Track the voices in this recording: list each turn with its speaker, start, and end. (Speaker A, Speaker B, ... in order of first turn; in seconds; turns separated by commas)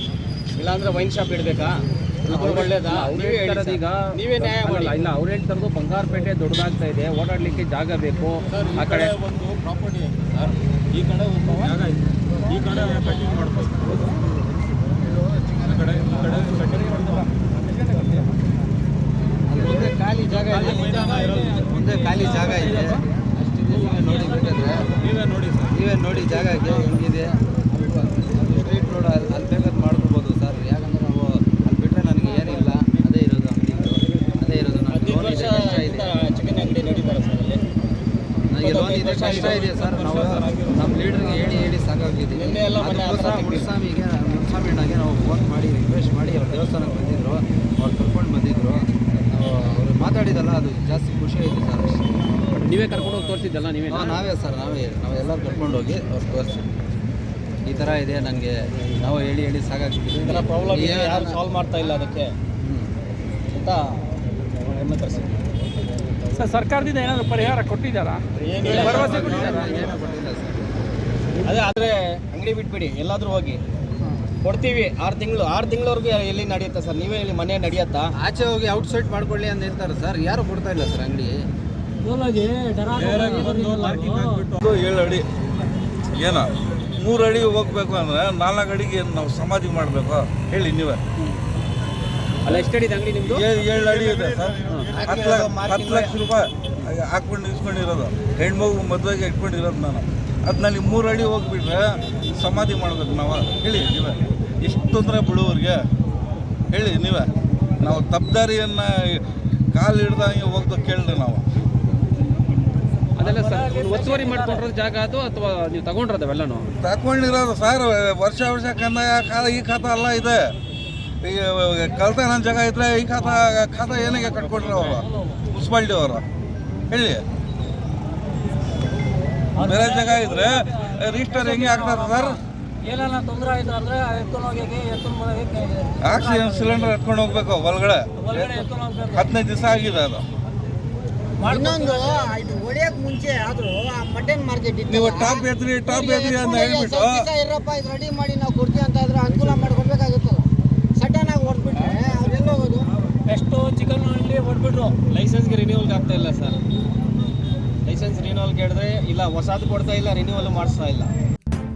Speaker A: 0.6-5.1, Speaker B: 2.3-9.1, Speaker C: 8.5-14.2, Speaker C: 15.4-17.3, Speaker D: 19.5-24.9, Speaker C: 20.5-22.9, Speaker E: 20.7-22.9, Speaker C: 23.7-25.8, Speaker D: 25.7-36.1, Speaker A: 34.9-37.6, Speaker D: 38.5-52.2, Speaker A: 38.6-39.7, Speaker C: 39.1-41.5, Speaker A: 42.3-43.7, Speaker B: 52.6-54.2, Speaker D: 53.9-56.7, Speaker D: 57.6-61.4, Speaker A: 60.2-62.3, Speaker D: 62.6-62.9, Speaker A: 63.5-64.0, Speaker A: 64.6-65.4, Speaker E: 66.3-69.7, Speaker A: 68.4-69.6, Speaker D: 68.7-70.7, Speaker C: 68.7-69.9, Speaker A: 71.4-73.6, Speaker A: 74.4-78.1, Speaker D: 78.2-81.4, Speaker E: 82.0-84.5, Speaker C: 82.9-84.6, Speaker F: 84.6-85.2, Speaker F: 86.2-91.0, Speaker B: 92.4-93.5, Speaker F: 93.2-105.8, Speaker C: 94.3-94.9, Speaker B: 94.7-95.0, Speaker D: 94.9-96.2, Speaker F: 106.7-107.3, Speaker F: 107.8-111.4, Speaker B: 113.2-116.7, Speaker E: 113.2-114.7, Speaker F: 116.8-120.5, Speaker F: 121.2-126.2, Speaker F: 126.9-127.2, Speaker E: 129.6-137.0, Speaker F: 129.6-132.4, Speaker F: 136.0-140.2, Speaker E: 138.2-139.3, Speaker G: 141.4-152.9, Speaker E: 141.4-142.2, Speaker F: 144.9-147.3, Speaker E: 153.3-154.9, Speaker A: 155.0-156.6, Speaker A: 157.8-161.1